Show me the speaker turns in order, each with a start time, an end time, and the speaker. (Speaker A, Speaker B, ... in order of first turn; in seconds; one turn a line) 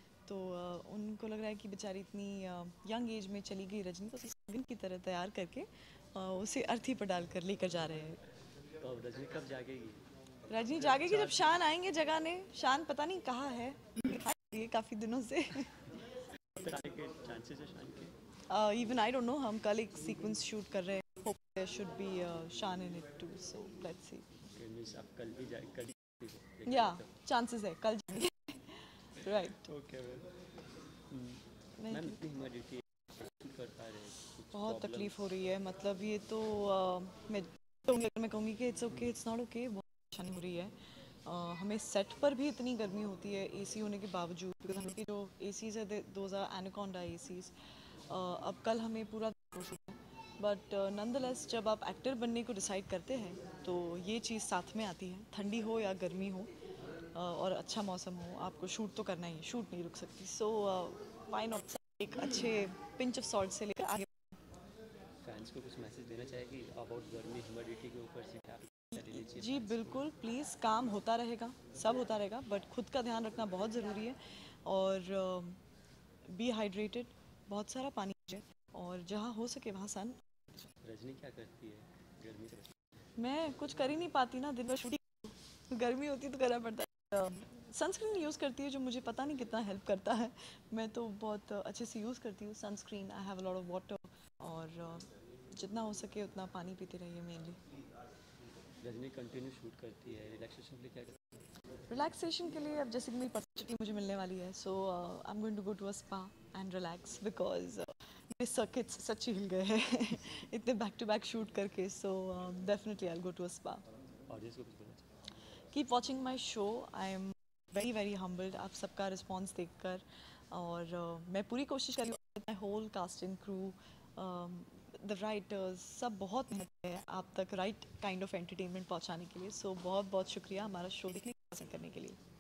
Speaker A: 0.2-8.2
Speaker B: 8.8-10.0
Speaker A: 10.5-15.7
Speaker B: 10.6-11.4
Speaker B: 16.6-18.1
Speaker A: 18.5-24.3
Speaker B: 24.5-27.1
Speaker A: 26.7-29.7
Speaker B: 29.6-30.3
Speaker B: 31.1-35.3
Speaker A: 31.8-32.2
Speaker A: 34.5-40.7
Speaker A: 41.2-47.5
Speaker A: 48.1-56.5
Speaker A: 57.1-64.2
Speaker B: 65.2-70.1
Speaker A: 68.9-75.6
Speaker A: 76.3-80.2
Speaker B: 80.8-83.0
Speaker A: 83.2-97.6
Speaker B: 98.8-101.4
Speaker A: 101.9-113.8
Speaker B: 114.3-115.1
Speaker A: 115.7-132.2